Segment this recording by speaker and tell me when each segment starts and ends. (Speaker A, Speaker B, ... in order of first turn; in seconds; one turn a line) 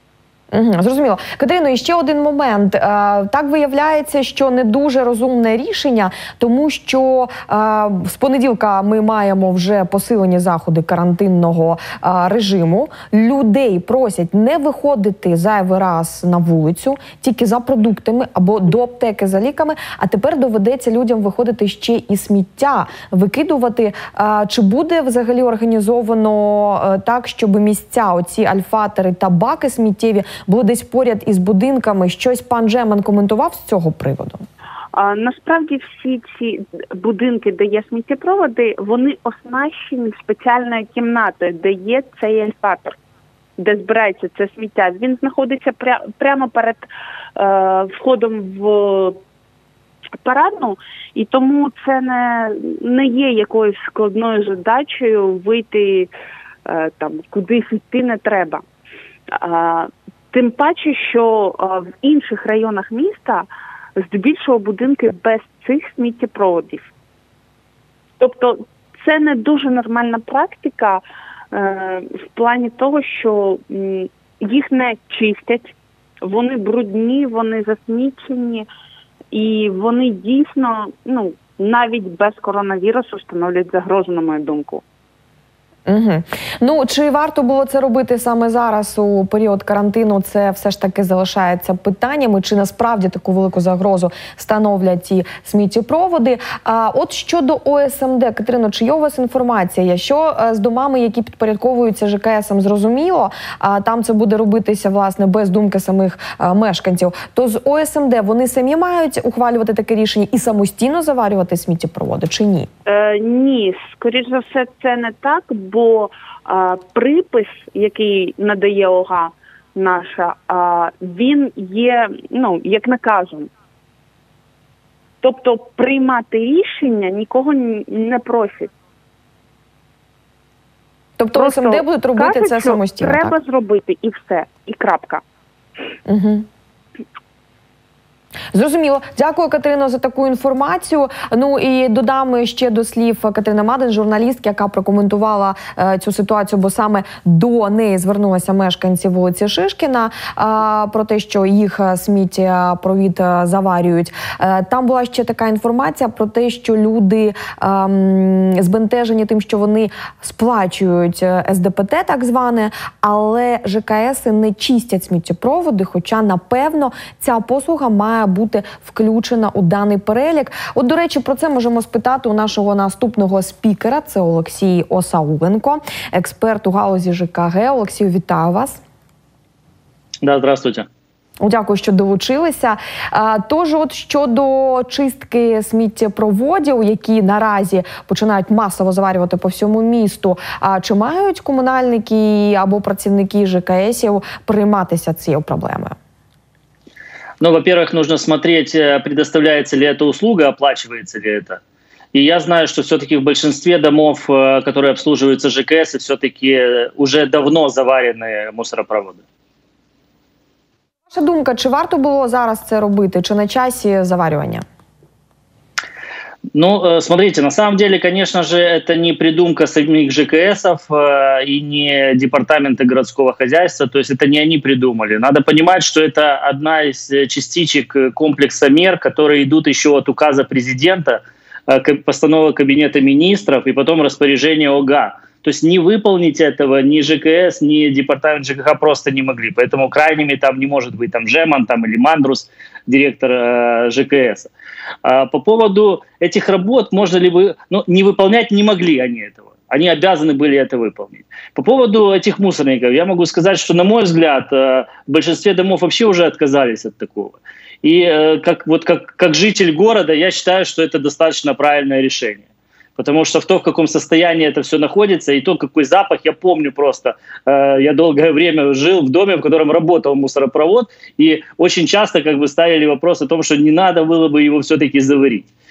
Speaker A: 0.5-34.5
Speaker B: 34.9-43.0
Speaker B: 43.6-49.2
Speaker B: 50.2-56.1
Speaker B: 56.6-58.6
Speaker B: 59.3-66.9
Speaker B: 68.2-71.0
Speaker B: 71.5-78.7
Speaker B: 79.3-84.8
Speaker A: 85.9-112.7
Speaker B: 112.9-123.5
Speaker B: 125.2-128.7
Speaker A: 131.2-133.4
Speaker B: 131.3-135.2
Speaker A: 136.1-136.5
Speaker A: 138.5-178.8
Speaker C: 180.2-180.9
Speaker A: 181.4-195.9
Speaker C: 197.4-201.6
Speaker C: 202.1-209.2
Speaker A: 211.1-214.7
Speaker C: 216.5-244.5
Speaker C: 245.1-262.4
Speaker C: 263.0-275.5